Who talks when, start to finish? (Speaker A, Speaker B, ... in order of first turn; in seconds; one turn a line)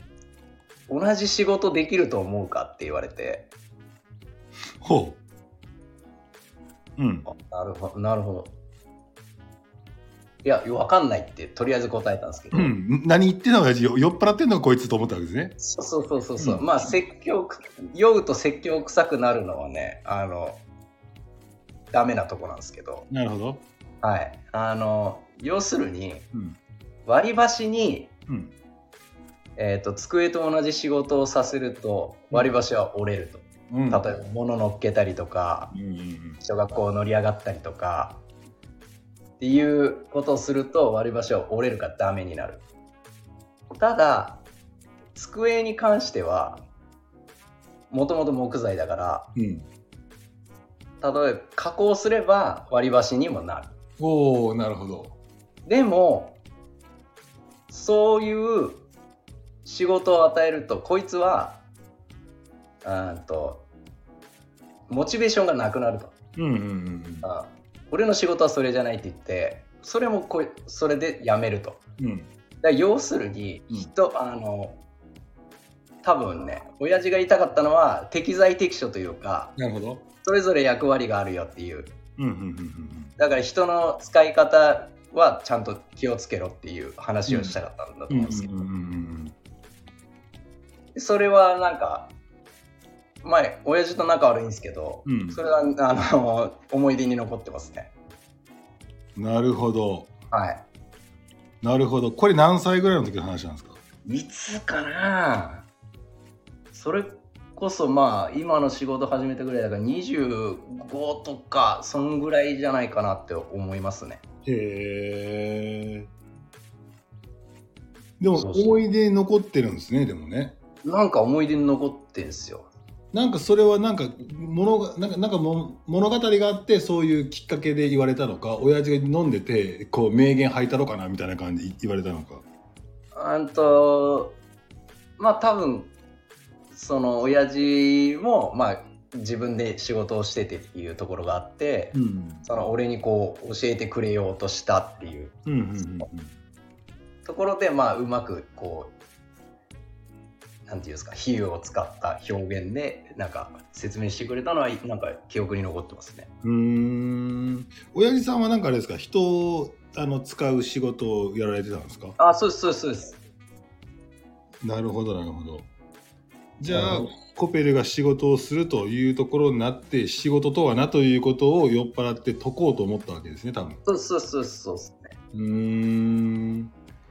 Speaker A: 0.9-3.5
Speaker B: 4.8-5.2
Speaker B: 7.0-7.3
Speaker A: 7.2-8.5
Speaker A: 10.4-12.7
Speaker B: 12.5-15.6
Speaker A: 15.6-20.6
Speaker B: 16.4-16.7
Speaker A: 21.9-23.1
Speaker B: 23.1-23.6
Speaker A: 24.0-26.3
Speaker A: 27.1-28.1
Speaker B: 28.3-28.5
Speaker A: 29.6-35.7
Speaker B: 33.7-34.0
Speaker B: 35.7-36.4
Speaker A: 36.4-38.2
Speaker A: 39.4-42.6
Speaker A: 43.8-44.4
Speaker A: 45.1-46.6
Speaker A: 47.9-49.3
Speaker B: 49.4-49.7
Speaker A: 51.0-53.7
Speaker B: 54.0-55.1
Speaker A: 55.7-56.4
Speaker A: 57.7-58.9
Speaker A: 59.6-61.6
Speaker A: 62.8-63.6
Speaker A: 64.9-66.1
Speaker B: 66.4-67.3
Speaker A: 67.2-71.8
Speaker B: 72.0-72.3
Speaker A: 72.6-74.8
Speaker A: 76.0-79.6
Speaker B: 79.6-80.0
Speaker A: 80.2-81.9
Speaker B: 82.2-83.2
Speaker A: 83.2-88.6
Speaker B: 87.3-87.6
Speaker B: 88.1-89.3
Speaker A: 91.0-92.1
Speaker A: 93.2-97.9
Speaker B: 95.1-95.4
Speaker B: 99.2-100.1
Speaker A: 100.3-100.6
Speaker B: 101.6-103.8
Speaker A: 104.1-105.7
Speaker A: 106.7-114.2
Speaker B: 114.5-116.1
Speaker B: 118.2-120.6
Speaker A: 118.3-118.8
Speaker A: 120.8-122.7
Speaker B: 123.1-132.4
Speaker A: 133.2-134.4
Speaker A: 135.2-135.9
Speaker A: 136.7-145.4
Speaker B: 141.9-142.5
Speaker B: 145.5-146.3
Speaker A: 147.2-148.9
Speaker A: 150.7-156.3
Speaker B: 156.4-162.2
Speaker A: 162.2-163.2
Speaker B: 164.6-165.7
Speaker B: 166.6-173.8
Speaker A: 166.7-167.1
Speaker A: 173.8-175.2
Speaker B: 175.3-176.7